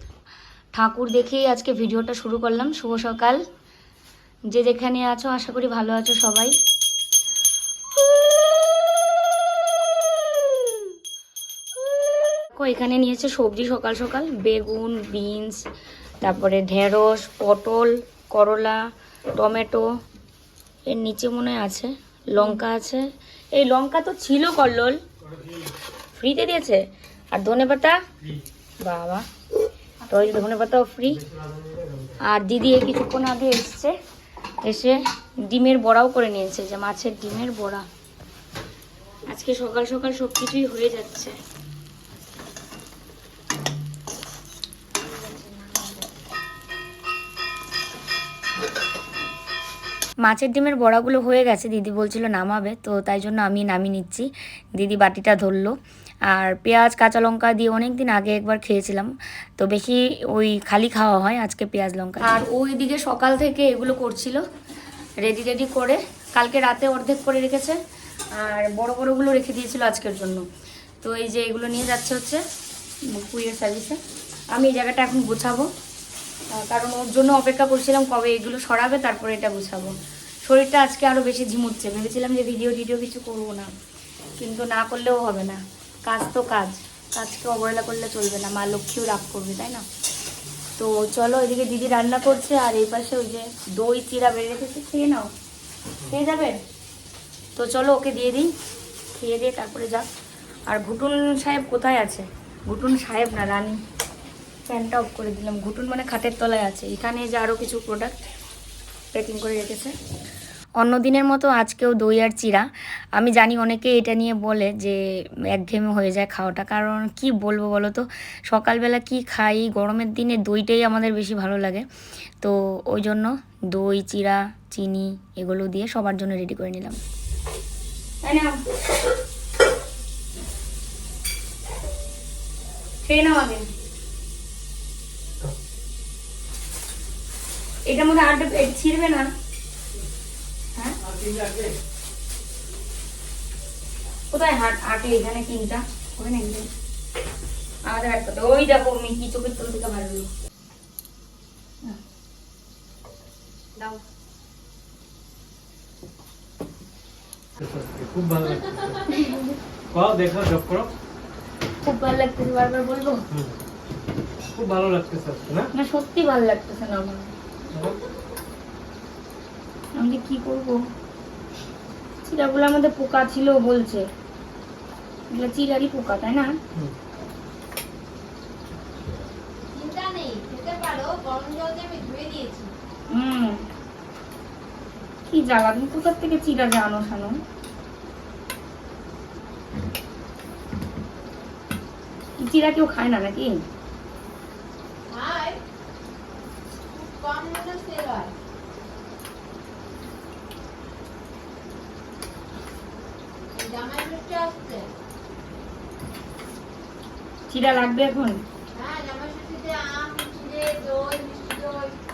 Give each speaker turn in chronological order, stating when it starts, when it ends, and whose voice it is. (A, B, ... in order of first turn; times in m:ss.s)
0:00.7-0:03.4 A
0:04.5-0:06.6 A
0:12.5-0:15.7 A
0:16.2-0:20.0 A
0:20.9-0:25.0 A
0:26.1-0:28.0 A
0:28.8-0:29.2 A
0:30.1-0:31.2 A
0:32.2-0:34.0 A
0:34.6-0:37.8 A
0:39.3-0:41.4 A
0:45.1-0:45.8 B
0:50.2-0:55.8 A
0:56.3-1:04.4 A
1:05.2-1:07.8 A
1:08.3-1:10.4 A
1:11.0-1:12.4 A
1:13.1-1:14.0 A
1:14.5-1:15.7 A
1:16.5-1:23.7 A
1:24.4-1:29.8 A
1:30.8-1:35.3 A
1:36.1-1:36.6 A
1:37.6-1:38.5 A
1:39.1-1:40.1 A
1:40.7-1:43.8 A
1:44.7-1:48.1 A
1:49.1-1:50.0 A
1:50.8-2:01.9 A
2:02.4-2:07.0 A
2:08.2-2:08.6 A
2:13.0-2:13.7 A
2:17.9-2:19.3 A
2:21.0-2:21.8 C
2:24.3-2:26.7 A
2:27.9-2:30.3 A
2:37.6-2:39.2 C
2:39.1-2:39.6 A
2:39.9-2:40.9 C
2:41.8-2:43.2 A
2:43.3-2:43.6 C
2:44.5-2:45.7 C
2:45.7-2:47.3 A
2:47.7-2:48.0 C
2:50.0-2:50.8 A
2:52.2-2:54.1 A
2:55.3-2:56.5 A
2:59.7-3:02.7 B
3:03.1-3:03.7 A
3:05.3-3:07.4 A
3:12.4-3:13.6 A
3:15.1-3:15.6 B
3:16.9-3:18.3 B
3:23.6-3:24.9 B
3:27.5-3:28.4 A
3:28.8-3:31.9 B